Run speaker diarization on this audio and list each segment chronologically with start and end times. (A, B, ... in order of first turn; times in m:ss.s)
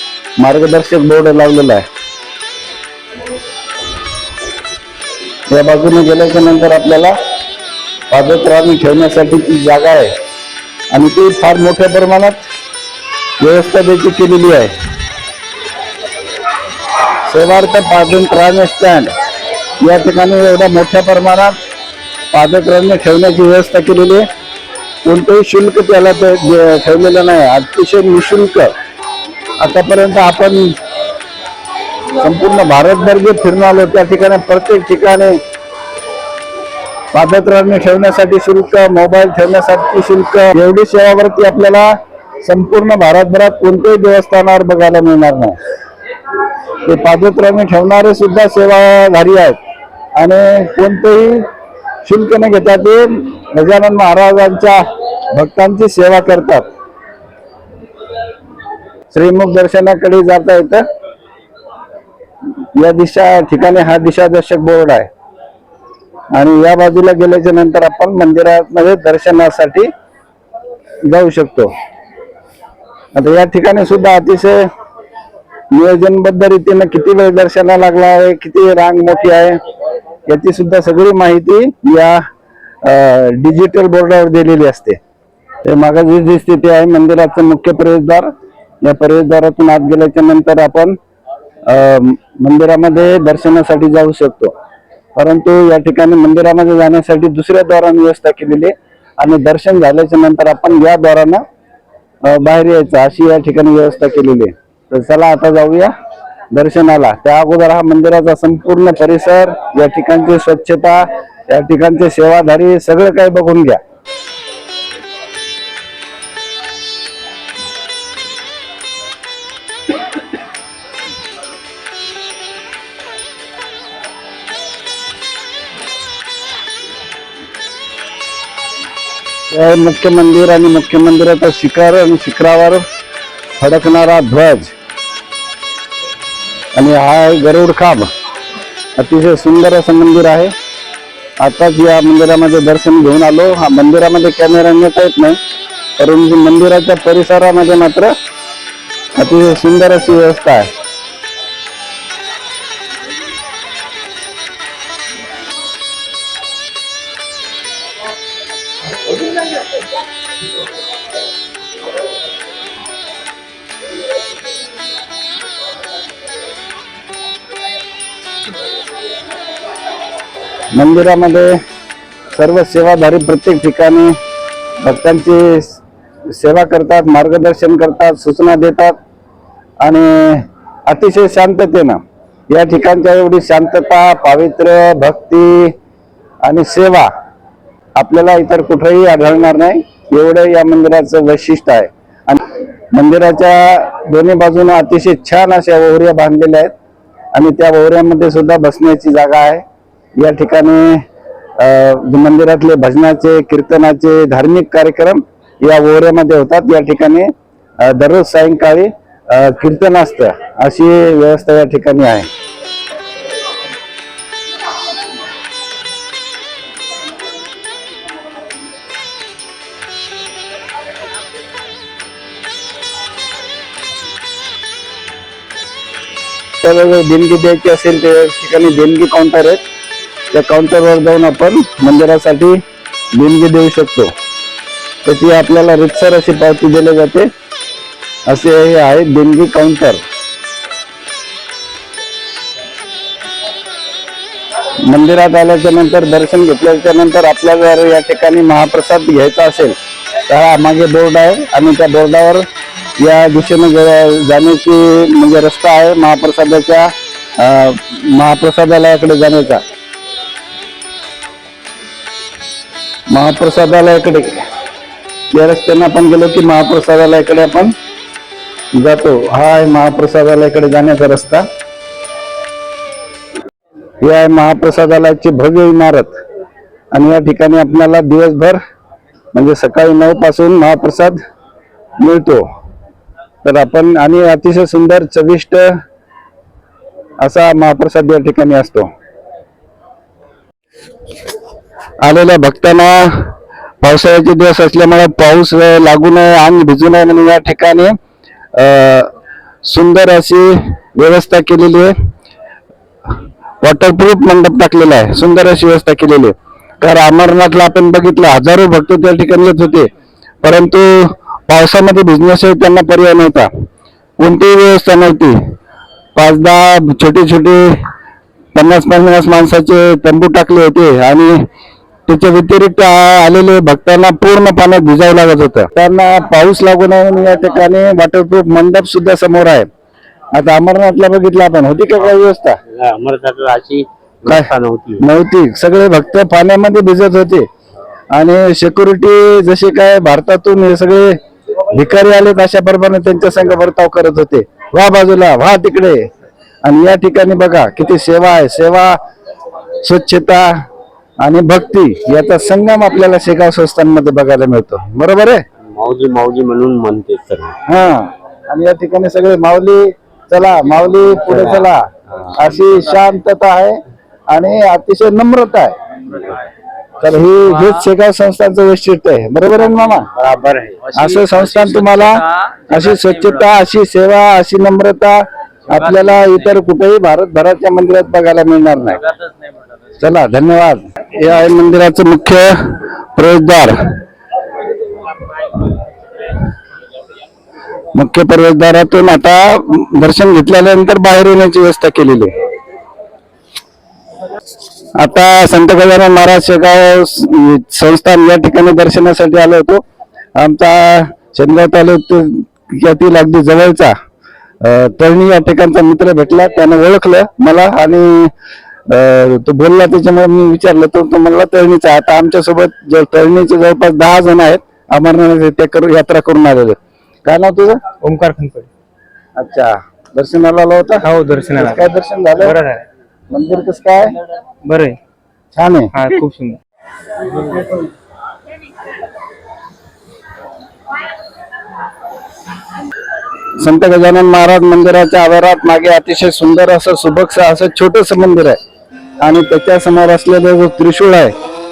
0:00.4-0:01.9 A
0:05.5-0:07.2 A
0:08.1-0:10.1 A
0:10.9-0:12.5 A
0:13.4-0:14.7 A
0:17.3-0:19.1 A
0:19.8-0:21.6 A
0:22.3-0:24.3 A
0:25.0-0:28.7 A
0:29.6-0:30.8 A
0:32.2-0:35.4 A
0:37.1-0:45.6 A
0:46.8-0:49.6 A
0:50.2-0:51.5 A
0:52.0-0:56.7 A
0:59.1-1:00.8 A
1:02.8-1:05.1 A
1:06.3-1:09.9 A
1:11.0-1:11.7 A
1:13.2-1:14.7 A
1:15.7-1:19.6 A
1:20.3-1:22.2 A
1:22.8-1:25.0 A
1:25.6-1:28.3 A
1:28.8-1:31.0 A
1:31.7-1:34.5 A
1:35.2-1:41.4 A
1:42.2-1:45.9 A
1:46.5-1:53.8 A
2:09.5-2:12.8 A
2:13.6-2:14.7 A
2:16.8-2:18.1 A
2:19.0-2:20.5 A
2:21.4-2:25.4 A
2:26.0-2:28.1 A
2:29.2-2:30.7 A
2:50.7-2:51.6 A
2:52.3-2:54.2 A
2:54.8-2:59.0 A
2:59.8-3:05.7 A
3:06.4-3:07.1 A
3:08.0-3:16.7 A
3:17.3-3:19.6 A
3:20.2-3:21.0 A
3:21.6-3:32.3 A
3:46.6-3:49.6 A
3:50.3-3:52.6 A
3:53.1-3:54.1 A
3:55.0-3:57.3 A
3:58.3-4:00.0 A
4:04.8-4:09.8 A
4:10.3-4:12.5 A
4:13.0-4:19.6 A
4:23.1-4:24.4 A
4:25.3-4:27.7 A
4:28.8-4:31.5 A
4:34.0-4:36.1 A
4:36.9-4:38.6 A
4:39.3-4:41.2 A
4:42.0-4:42.5 A
4:43.4-4:45.8 A
4:47.2-4:48.9 A
4:52.0-4:58.0 A
4:58.5-4:59.1 A
4:59.6-5:01.9 A
5:03.6-5:09.9 A
5:10.4-5:13.5 A
5:14.2-5:15.4 A
5:16.2-5:17.8 A
5:18.6-5:21.4 A
5:22.1-5:29.7 A
5:30.3-5:32.6 A
5:32.7-5:35.0 B
5:34.3-5:37.5 A
5:38.1-5:41.2 A
5:41.7-5:46.1 A
5:46.6-5:49.0 A
5:49.8-5:50.6 A
5:51.2-5:55.4 A
5:55.6-5:57.6 B
5:57.7-6:03.8 A
6:01.3-6:01.7 B
6:04.3-6:05.8 A
6:07.0-6:10.1 A
6:10.1-6:11.0 B
6:11.0-6:19.0 A
6:20.0-6:24.0 A
6:27.9-6:32.3 A
6:35.0-6:39.8 A
6:40.4-6:43.9 A
6:44.6-6:48.3 A
6:48.9-6:57.8 A
6:58.0-6:58.7 C
6:59.4-7:02.6 A
7:01.0-7:01.8 C
7:02.4-7:02.8 C
7:03.3-7:04.2 A
7:04.6-7:05.0 C
7:05.6-7:05.9 A
7:06.0-7:06.6 C
7:13.6-7:18.6 A
7:19.2-7:21.3 A